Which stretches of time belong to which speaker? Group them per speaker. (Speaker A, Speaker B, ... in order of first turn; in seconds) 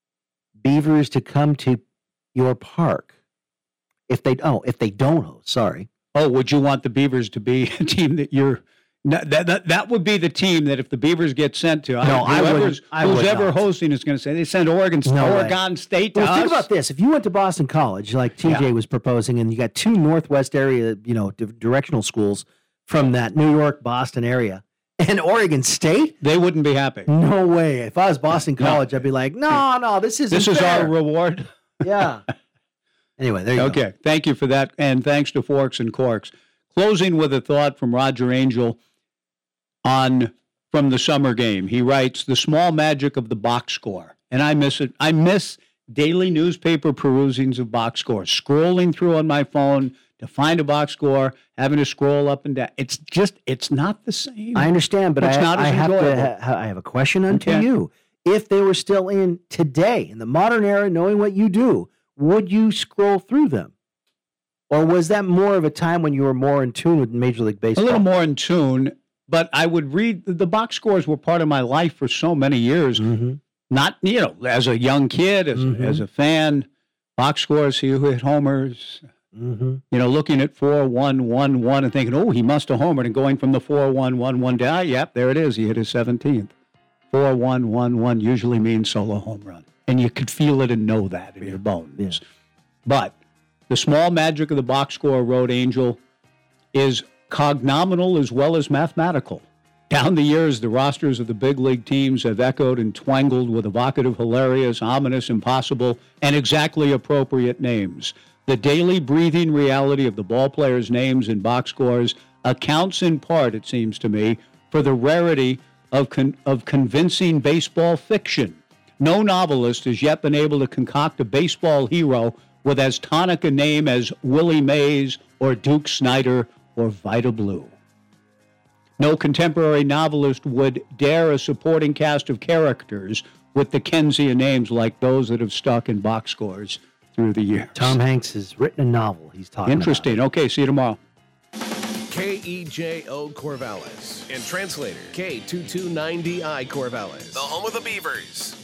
Speaker A: 0.6-1.8, 2.4-3.1, 4.1-5.9, 12.0-13.6, 15.1-15.6, 16.1-26.2, 27.1-30.9, 31.8-32.2, 33.2-33.8, 54.5-63.7, 64.7-68.0, 73.0-73.4, 75.6-76.0, 79.3-79.8, 91.4-92.2, 137.8-140.1
Speaker B: 6.2-16.7, 26.2-27.1, 30.3-31.5, 33.6-38.8, 39.9-56.3, 57.3-57.6, 67.8-73.1, 73.7-79.1, 79.9-86.5, 87.1-92.2, 92.8-93.2, 93.7-96.0, 96.7-127.7, 129.0-138.0, 139.7-141.0
Speaker C: 142.1-147.4